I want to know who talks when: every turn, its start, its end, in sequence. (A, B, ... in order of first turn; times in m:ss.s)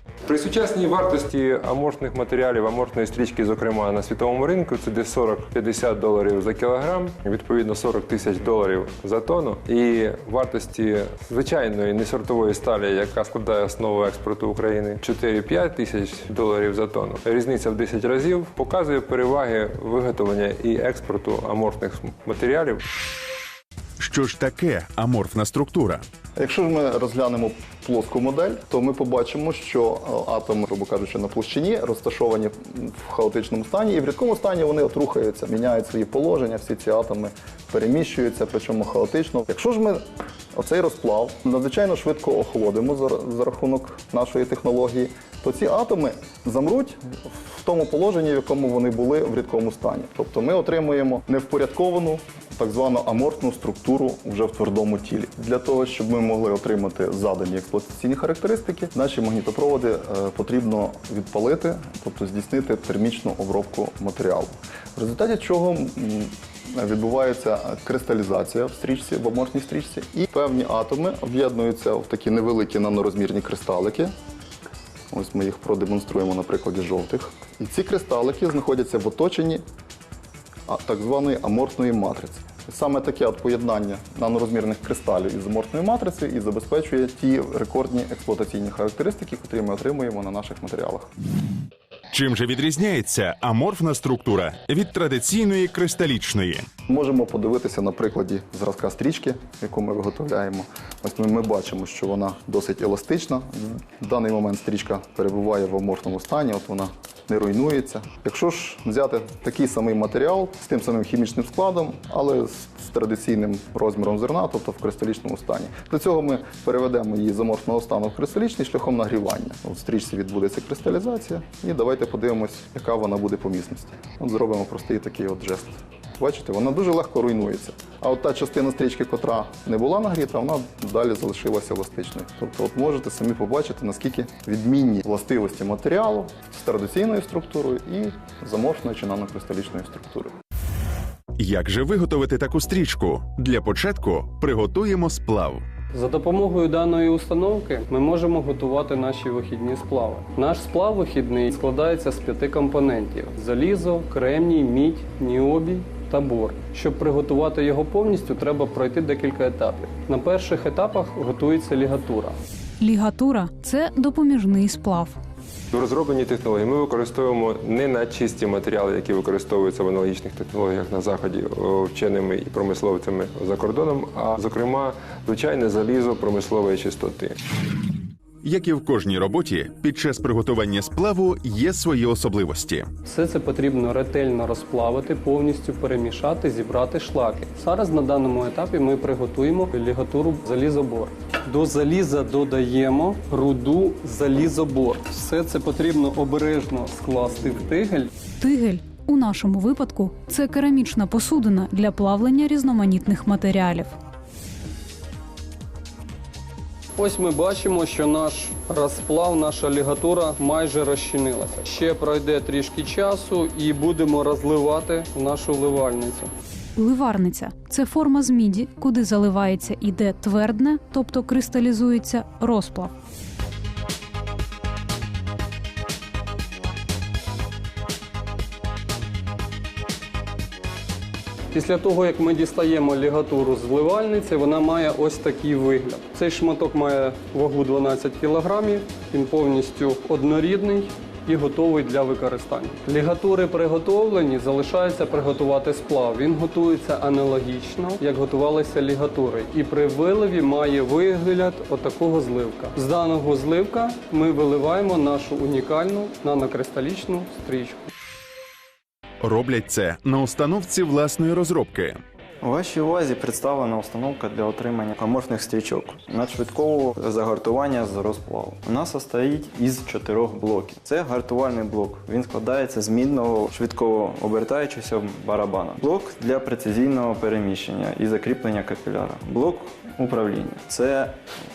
0:00.3-0:22.8 A
0:24.0-0:26.0 B
0:26.4-0:40.0 C
0:40.5-1:14.1 C
1:15.1-1:19.6 C
1:20.7-1:31.1 C
1:32.1-1:36.6 B
1:36.9-2:20.3 C
2:21.4-2:25.6 B
2:25.9-2:42.4 D
2:42.8-2:45.2 E
2:45.7-2:57.4 A
2:58.4-3:02.9 B
3:03.1-3:18.1 D
3:18.4-3:23.9 E
3:27.0-3:36.3 D
3:36.8-3:42.9 E
3:51.5-4:17.9 D
4:19.2-4:22.0 B
4:22.4-4:41.2 F